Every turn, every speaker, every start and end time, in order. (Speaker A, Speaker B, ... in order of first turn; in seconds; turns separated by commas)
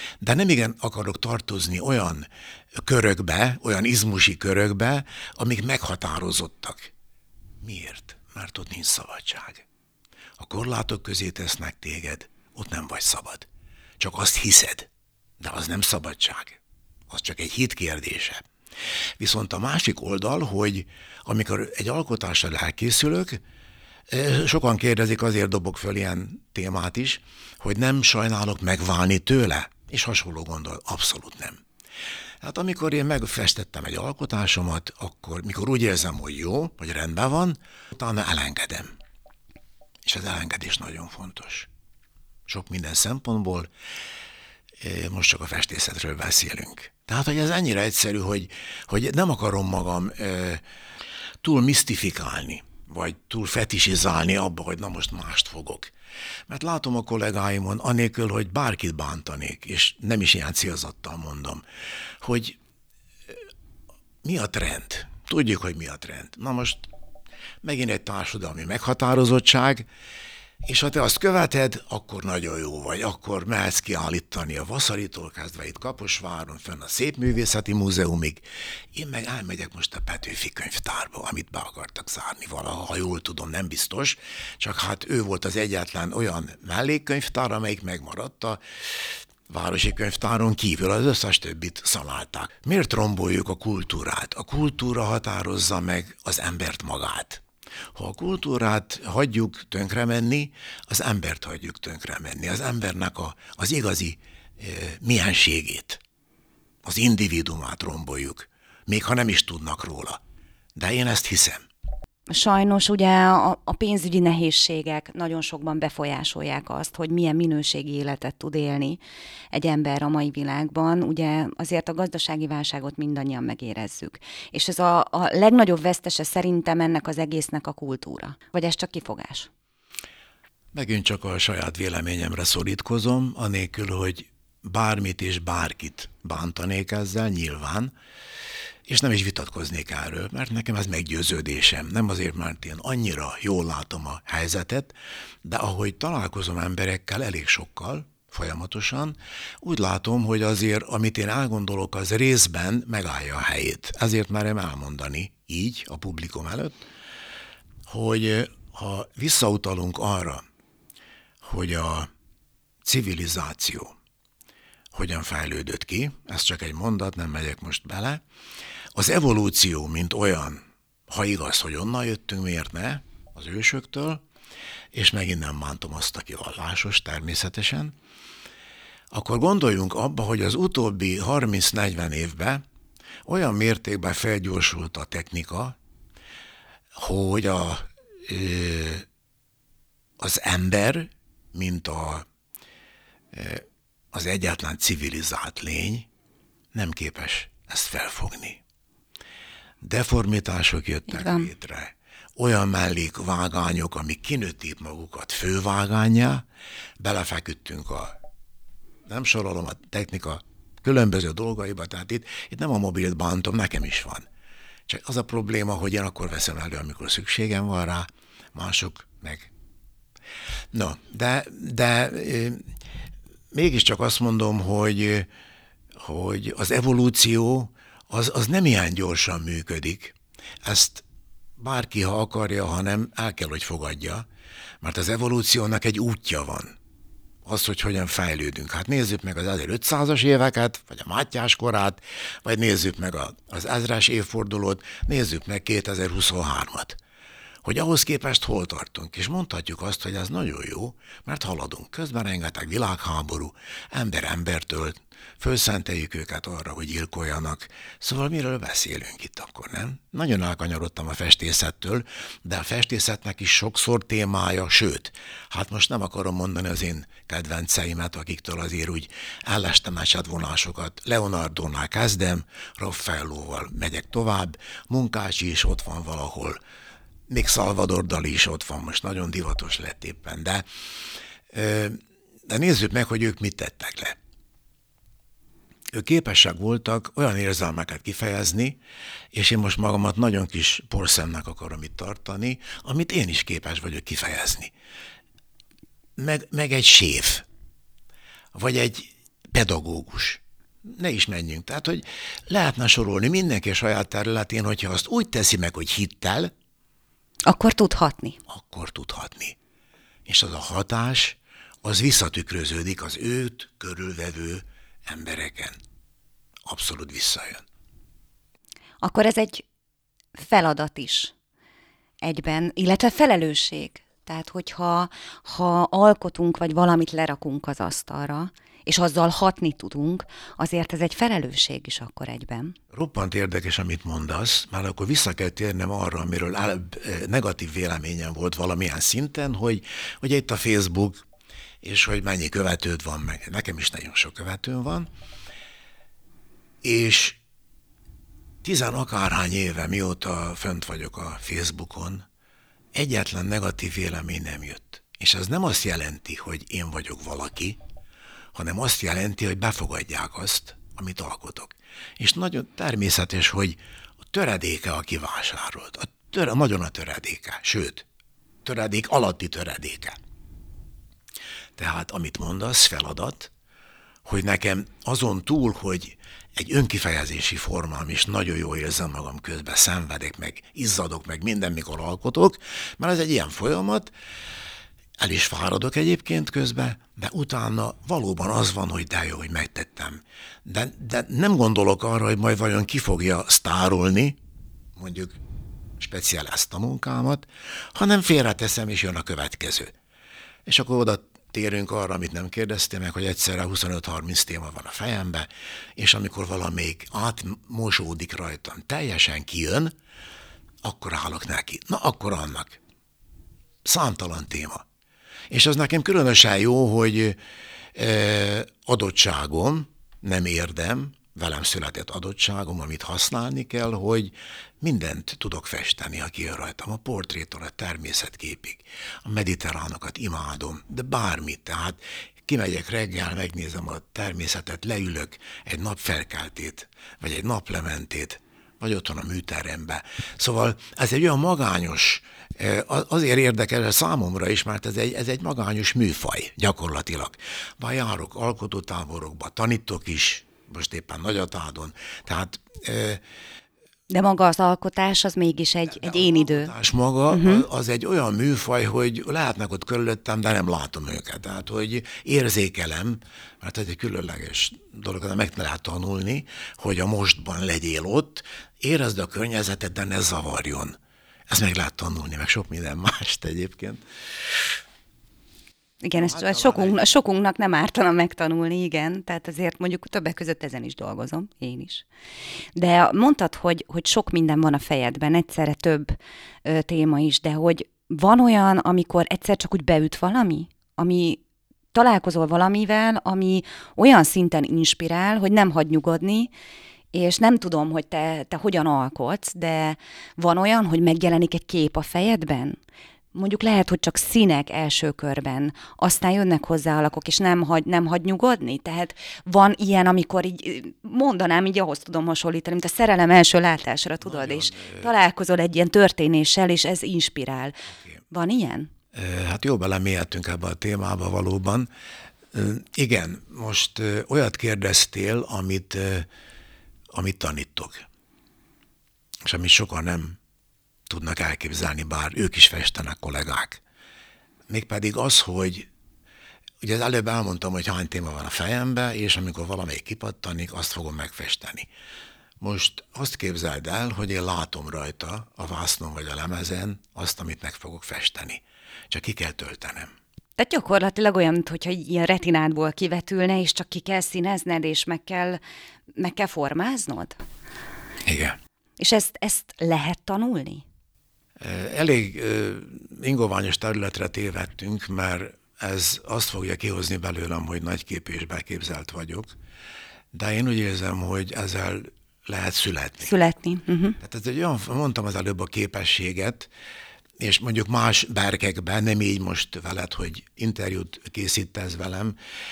Speaker A: 0.2-6.9, Speaker A: 7.6-9.6, Speaker A: 10.4-13.5, Speaker A: 14.0-14.9, Speaker A: 15.4-18.4, Speaker A: 19.2-23.4, Speaker A: 24.1-31.6, Speaker A: 32.4-38.9, Speaker A: 40.0-41.7, Speaker A: 42.5-43.7, Speaker A: 44.8-50.6, Speaker A: 51.4-55.9, Speaker A: 56.5-61.6, Speaker A: 62.2-62.6, Speaker A: 64.2-66.8, Speaker A: 67.6-69.8, Speaker A: 70.6-97.4, Speaker A: 97.9-106.0, Speaker A: 106.8-110.2, Speaker A: 110.8-111.6, Speaker B: 112.3-119.0, Speaker B: 119.5-129.5, Speaker A: 130.7-137.9, Speaker A: 138.9-156.8, Speaker A: 157.9-160.4, Speaker A: 161.4-162.1, Speaker A: 162.8-163.9, Speaker A: 164.9-168.2, Speaker A: 168.9-174.2, Speaker A: 174.9-177.9, Speaker A: 179.1-182.6, Speaker A: 183.2-185.8, Speaker A: 186.9-189.1, Speaker A: 190.2-192.2, Speaker A: 193.3-196.1, Speaker A: 196.7-198.6, Speaker A: 199.8-206.4, Speaker B: 201.1-201.5, Speaker A: 207.0-208.1, Speaker A: 209.1-214.2, Speaker A: 214.9-219.5, Speaker A: 220.7-222.6, Speaker A: 223.5-225.3, Speaker A: 225.9-231.0, Speaker A: 231.6-234.2, Speaker A: 234.8-236.8, Speaker A: 237.4-247.0, Speaker A: 247.6-276.6, Speaker A: 277.3-280.6, Speaker A: 281.5-284.1, Speaker A: 285.9-288.8, Speaker A: 289.3-294.7, Speaker A: 296.2-297.4, Speaker A: 298.5-306.5, Speaker B: 307.4-308.4, Speaker A: 308.5-309.6, Speaker A: 310.2-315.8, Speaker A: 316.6-317.6, Speaker B: 319.0-319.6, Speaker B: 320.4-321.3, Speaker B: 322.2-332.8, Speaker A: 332.9-341.2, Speaker A: 341.8-345.1, Speaker A: 346.8-347.4, Speaker A: 348.6-352.2, Speaker A: 352.9-357.8, Speaker A: 358.5-363.8, Speaker A: 364.3-368.1, Speaker A: 368.6-370.2, Speaker A: 371.8-373.5, Speaker A: 374.2-384.1, Speaker A: 385.2-394.4, Speaker A: 394.9-395.4, Speaker A: 396.0-399.9, Speaker A: 400.6-409.9, Speaker A: 410.8-412.8, Speaker A: 413.8-414.8, Speaker A: 415.5-417.4, Speaker A: 417.9-453.2, Speaker B: 454.1-456.7, Speaker A: 455.9-470.9, Speaker B: 457.3-457.6, Speaker A: 471.5-474.0, Speaker B: 476.0-482.0, Speaker A: 476.1-477.0, Speaker B: 482.8-491.4, Speaker B: 491.9-496.5, Speaker B: 497.1-502.8, Speaker B: 503.3-518.9, Speaker A: 514.2-515.1, Speaker A: 519.1-521.9, Speaker A: 522.5-526.3, Speaker A: 527.1-528.0, Speaker A: 529.4-530.4, Speaker A: 531.1-533.8, Speaker A: 534.7-535.9, Speaker A: 536.8-541.9, Speaker A: 542.6-550.1, Speaker B: 550.6-555.6, Speaker B: 556.2-557.4, Speaker A: 558.2-558.5, Speaker B: 559.0-560.8, Speaker A: 561.6-569.5, Speaker A: 570.3-573.3, Speaker B: 573.2-574.2, Speaker A: 574.2-576.7, Speaker A: 577.4-582.4